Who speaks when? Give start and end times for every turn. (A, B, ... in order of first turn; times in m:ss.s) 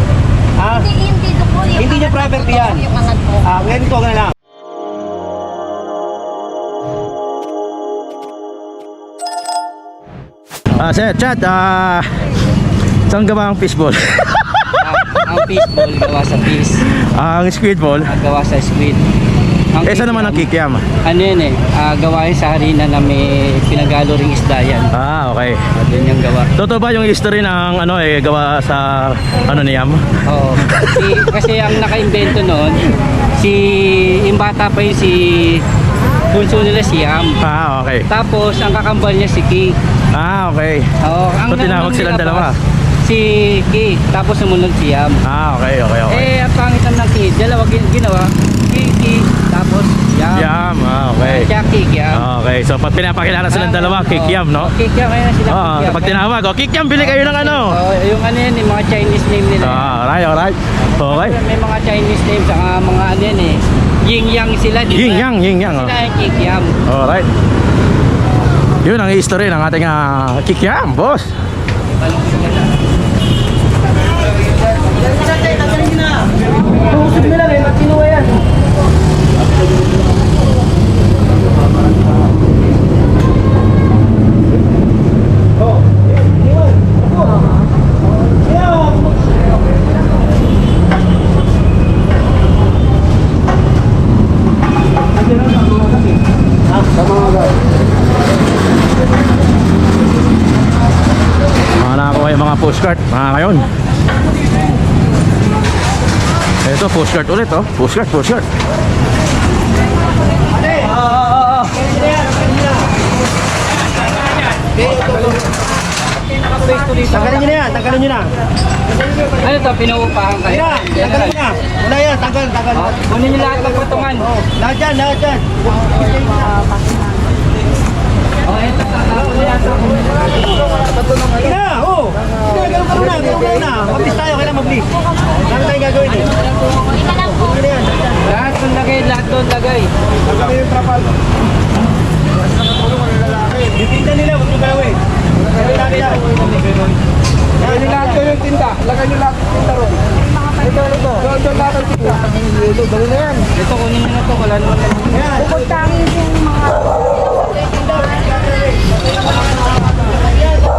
0:00.6-0:00.9 A
0:00.7-0:03.5 B
0:01.8-0:02.8 A
0:03.4-0:04.3 A
0:10.8-0:12.1 C
0:13.1-0:14.8 C
0:14.8-0:16.9 D
0:16.9-0:18.1 C
0:18.1-0:19.0 D
0:19.7-0:20.5 D
0:19.8-0:20.9 C
0:21.0-0:24.9 D
0:24.9-0:25.7 C
0:25.8-0:26.5 D
0:26.6-0:30.0 C
0:30.3-0:35.6 D
0:30.8-0:31.0 C
0:36.3-0:37.4 D
0:37.4-0:38.1 C
0:38.1-0:39.8 D
0:40.1-0:40.9 C
0:41.0-0:45.2 D
0:41.5-0:42.6 C
0:45.2-0:46.3 C
0:46.1-0:50.5 D
0:50.3-0:51.5 C
0:51.2-0:52.2 D
0:52.1-0:54.7 C
0:53.5-0:56.2 D
0:55.5-0:57.8 C
0:57.0-1:00.0 D
0:59.6-1:01.4 C
1:01.0-1:06.8 D
1:04.9-1:05.9 C
1:06.9-1:07.3 C
1:08.8-1:11.3 C
1:12.1-1:12.6 D
1:16.9-1:18.3 A
1:25.9-1:27.4 A
1:28.4-1:29.1 A
1:41.8-1:43.7 C
1:46.6-1:48.5 C
1:50.5-1:52.9 A
1:54.6-1:55.4 A
1:56.4-1:57.6 D
1:57.1-1:58.3 A
1:59.4-2:01.4 D
2:00.5-2:03.0 A
2:02.8-2:04.4 D
2:04.5-2:06.6 A
2:08.5-2:10.2 D
2:11.2-2:14.9 A
2:15.5-2:16.4 A
2:16.8-2:17.6 B
2:17.4-2:18.0 A
2:18.2-2:19.9 D
2:23.5-2:26.2 A
2:27.6-2:28.6 A
2:30.9-2:32.0 D
2:33.5-2:35.4 D
2:35.2-2:36.0 A
2:37.7-2:38.8 A
2:40.2-2:40.5 A